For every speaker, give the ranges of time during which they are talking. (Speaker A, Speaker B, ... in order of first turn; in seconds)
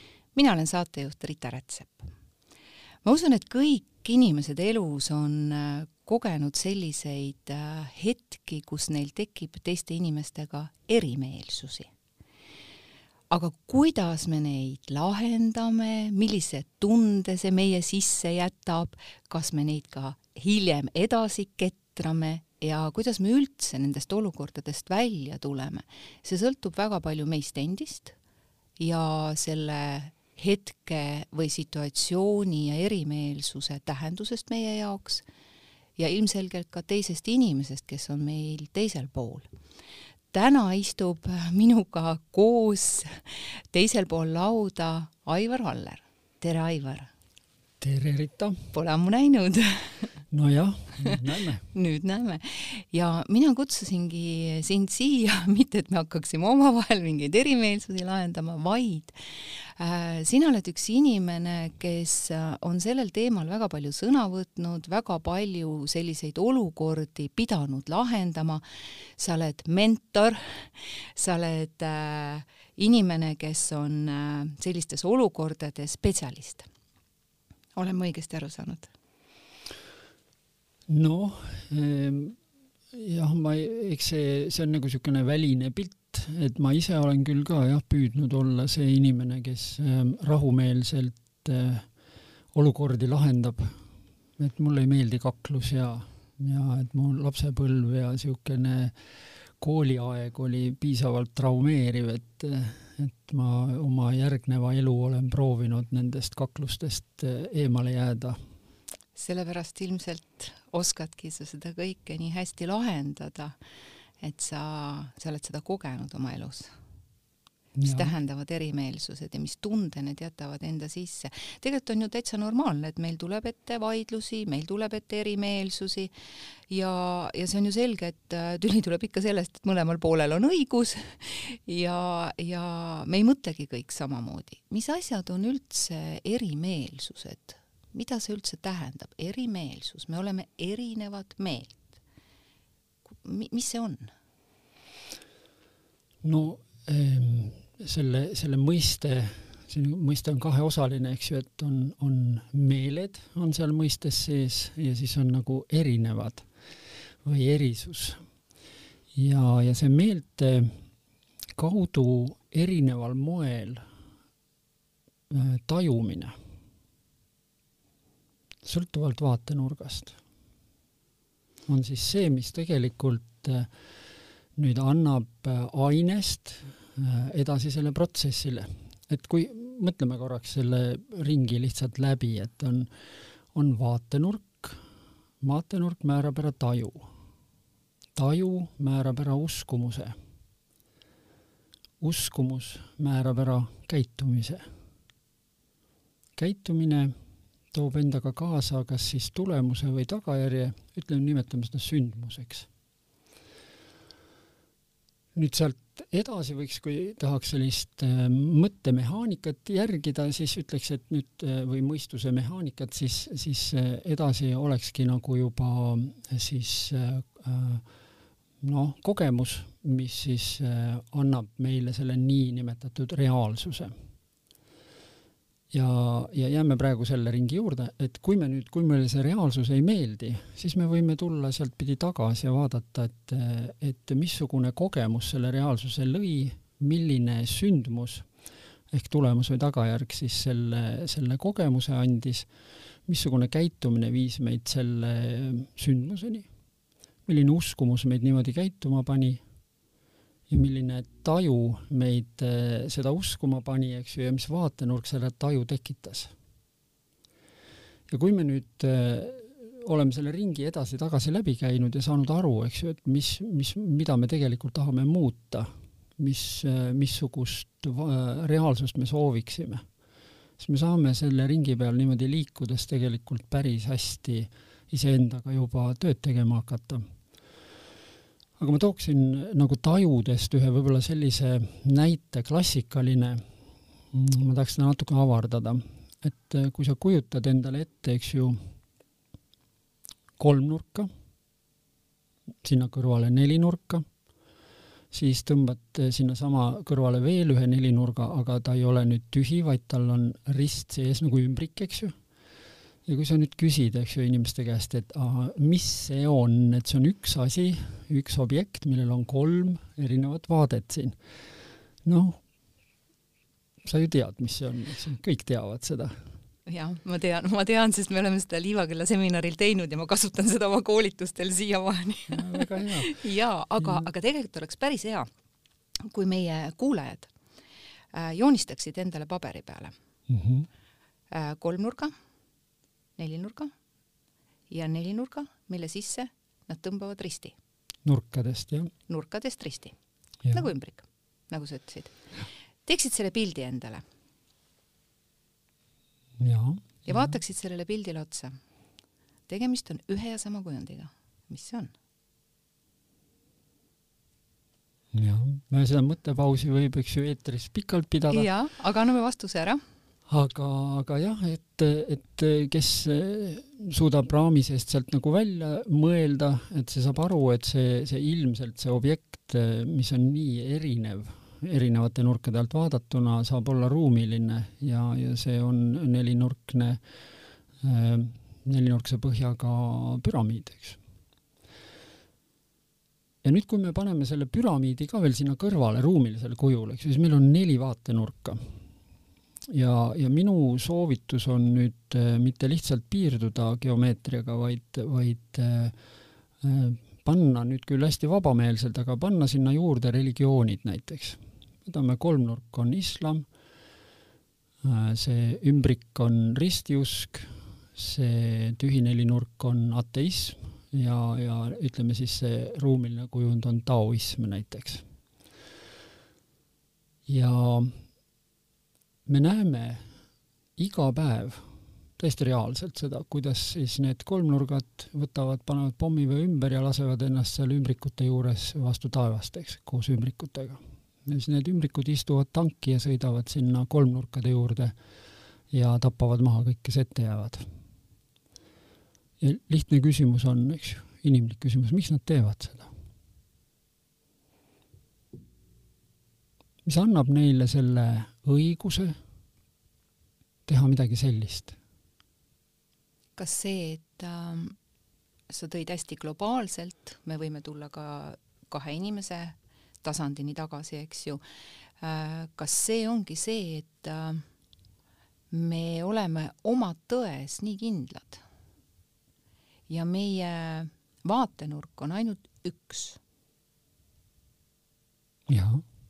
Speaker A: 0.3-2.1, 3.0-11.9, 13.3-28.2, 28.8-35.2, 36.0-39.5, 40.3-47.1, 48.7-50.1, 51.7-68.6, 69.2-76.7, 77.8-78.9, 109.2-113.5, 114.2-116.7, 117.8-126.1, 126.7-142.0, 143.2-144.1, 316.7-325.3, 326.0-327.3, 328.1-329.9, 331.3-332.1, 333.2-333.7, 334.7-337.6, 339.1-340.0, 340.5-342.2, 342.9-344.1, 347.1-348.6, 349.5-351.9, 358.3-359.8, 453.4-454.8, 455.5-461.4, 462.0-464.4, 465.5-468.4, 469.9-473.2
Speaker B: 47.8-48.6, 50.3-51.6, 80.9-82.4, 82.9-91.9, 92.5-93.8, 94.4-99.0, 99.6-108.4, 117.8-118.1, 146.2-156.5, 157.2-158.2, 159.1-160.7, 161.6-163.8, 165.3-166.3, 168.6-170.2, 171.7-173.7, 174.6-182.9, 183.5-184.8, 185.4-187.1, 188.2-190.2, 192.0-194.7, 196.4-197.1, 197.7-202.7, 205.3-217.8, 218.6-223.9, 225.7-238.3, 238.9-242.5, 243.1-246.5, 247.3-249.4, 250.5-256.3, 258.1-269.8, 270.6-277.0, 278.6-283.4, 284.1-288.6, 290.4-291.1, 292.6-294.1, 295.1-302.2, 303.1-311.2, 312.0-312.4, 313.8-316.1, 322.3-323.2, 323.8-324.1, 330.3-330.7, 338.1-338.9, 346.4-347.3, 355.1-358.5, 360.3-377.0, 377.8-381.0, 383.4-388.7, 389.7-395.9, 396.6-403.5, 404.8-415.1, 417.3-418.0, 419.3-420.0, 420.8-421.7, 422.2-434.9, 435.7-437.6, 439.4-442.9, 446.9-449.2, 450.7-451.8, 475.5-475.8